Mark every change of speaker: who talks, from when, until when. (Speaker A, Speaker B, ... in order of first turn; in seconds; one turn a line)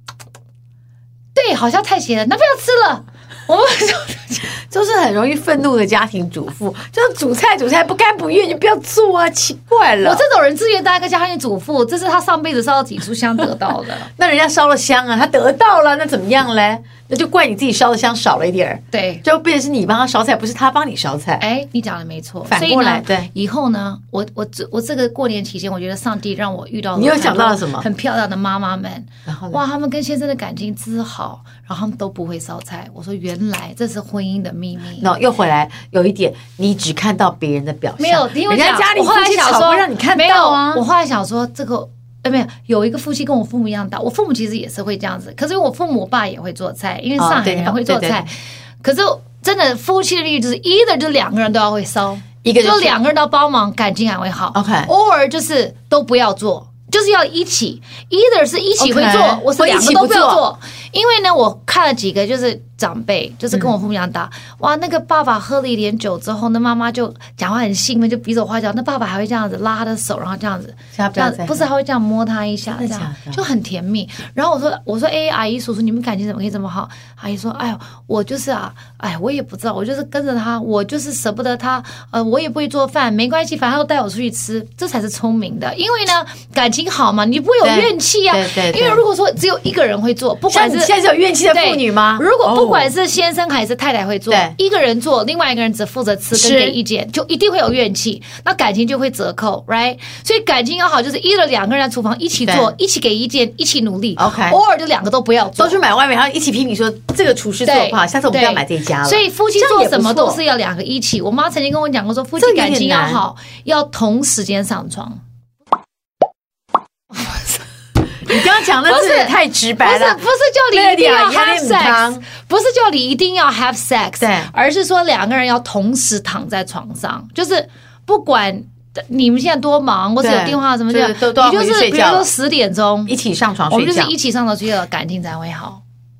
Speaker A: 1.3-4.5
Speaker B: 4.5-10.2
Speaker A: 10.0-14.1
Speaker B: 14.1-21.4
Speaker A: 18.9-19.2
Speaker A: 21.4-35.1
Speaker B: 22.5-23.3
Speaker B: 26.9-27.9
Speaker B: 29.3-29.6
Speaker B: 35.0-40.8
Speaker A: 38.0-90.9
Speaker B: 47.2-48.3
Speaker B: 52.4-53.0
Speaker B: 54.5-54.9
Speaker B: 58.8-60.4
Speaker B: 70.9-71.7
Speaker B: 72.7-73.4
Speaker B: 87.6-89.0
Speaker B: 90.5-92.9
Speaker A: 91.5-105.8
Speaker B: 94.3-94.5
Speaker B: 96.3-96.8
Speaker B: 102.5-102.7
Speaker B: 104.2-104.6
Speaker B: 105.6-110.4
Speaker A: 107.6-115.2
Speaker B: 112.4-113.2
Speaker B: 118.2-120.2
Speaker A: 118.3-133.1
Speaker B: 120.7-122.2
Speaker B: 124.2-124.5
Speaker B: 130.2-132.3
Speaker B: 133.1-134.1
Speaker A: 133.7-135.8